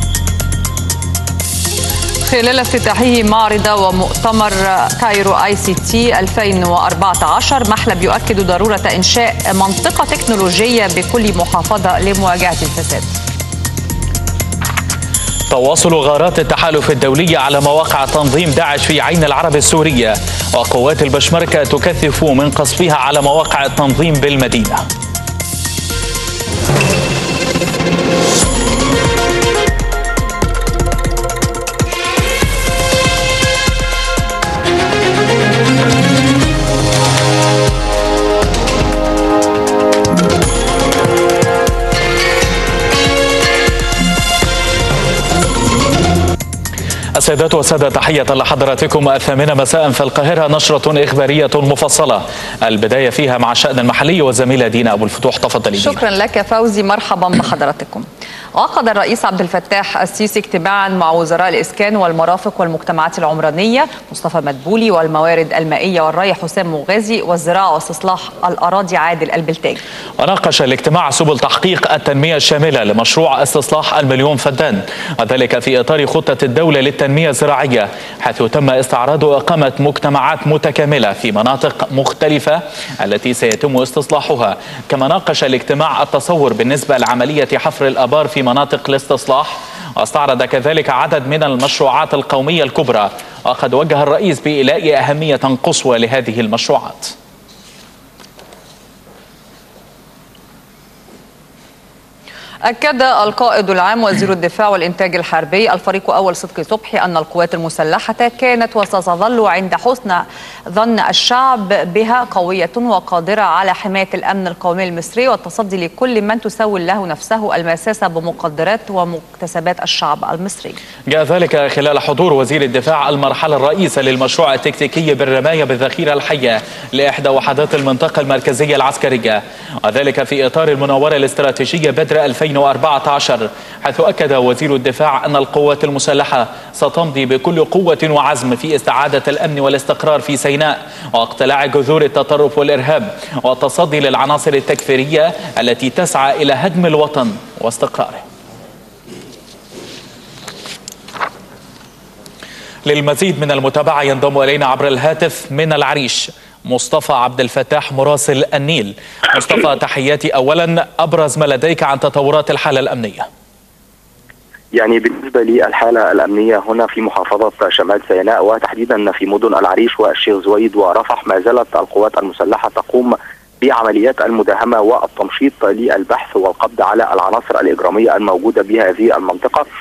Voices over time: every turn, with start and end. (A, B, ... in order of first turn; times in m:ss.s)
0:02.2-0:13.1 A
0:15.5-0:24.8 B
0:47.2-0:56.0 B
0:55.8-1:09.8 A
1:10.2-1:37.1 B
1:42.6-2:00.8 A
2:01.1-2:28.2 B
2:32.9-2:43.3 B
2:44.7-2:59.6 C